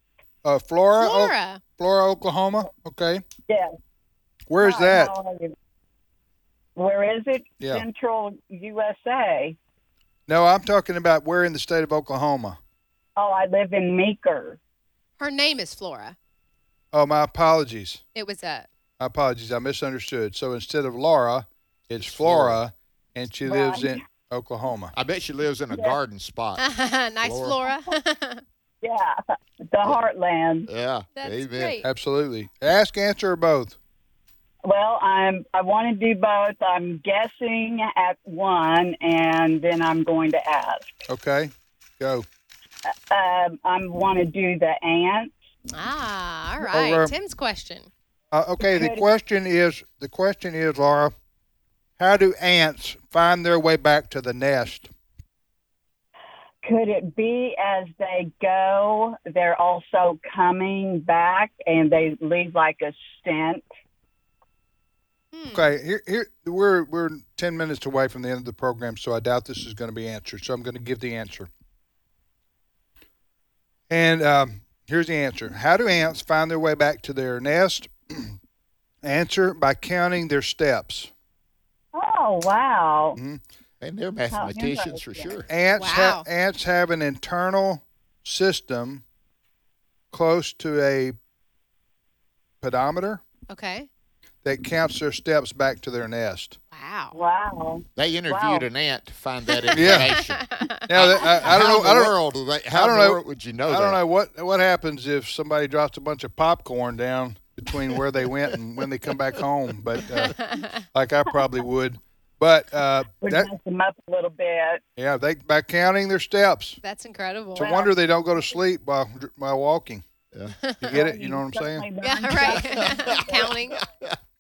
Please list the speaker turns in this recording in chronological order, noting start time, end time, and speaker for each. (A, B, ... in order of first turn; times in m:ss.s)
0:00.4-0:03.2 A
0:01.0-0:01.6 B
0:03.5-0:03.8 C
0:04.5-0:05.1 A
0:04.6-0:05.5 C
0:06.8-0:09.6 C
0:10.3-0:12.6 A
0:13.2-0:14.6 C
0:15.2-0:16.2 B
0:16.9-0:18.0 A
0:18.2-0:18.7 B
0:19.0-0:25.0 A
0:22.0-0:22.6 D
0:23.5-0:24.0 C
0:24.9-0:26.6 D
0:25.7-0:26.0 C
0:26.6-0:28.4 B
0:27.2-0:27.6 D
0:28.8-0:30.7 C
0:30.7-0:31.8 D
0:31.2-0:31.9 B
0:31.8-0:33.8 A
0:34.6-0:41.0 C
0:41.1-0:42.3 A
0:42.9-0:45.3 C
0:45.7-0:47.9 B
0:46.6-0:47.1 A
0:48.3-0:51.1 A
0:48.7-0:49.1 C
0:52.0-0:54.9 A
0:56.6-1:03.7 C
1:05.3-1:05.7 B
1:05.5-1:11.5 A
1:13.9-1:18.4 A
1:19.0-1:21.1 A
1:21.9-1:23.2 C
1:23.2-1:23.4 A
1:23.8-1:25.5 D
1:24.3-1:25.4 C
1:25.5-1:29.0 A
1:25.8-1:26.3 B
1:30.1-1:31.2 A
1:32.6-1:33.2 A
1:33.5-1:33.9 B
1:34.4-1:36.6 A
1:36.7-1:37.2 B
1:37.1-1:38.7 C
1:38.0-1:44.0 D
1:39.5-1:40.9 B
1:39.7-1:40.2 A
1:40.9-1:42.2 A
1:42.7-1:53.5 A
1:50.2-1:50.8 B
1:53.2-1:54.8 C
1:55.0-1:56.8 A
1:56.8-1:57.8 B
1:57.6-2:00.1 A
1:57.6-1:57.9 C
2:00.6-2:00.9 B
2:00.8-2:01.9 A
2:00.9-2:03.5 C
2:02.0-2:03.8 B
2:02.9-2:04.2 D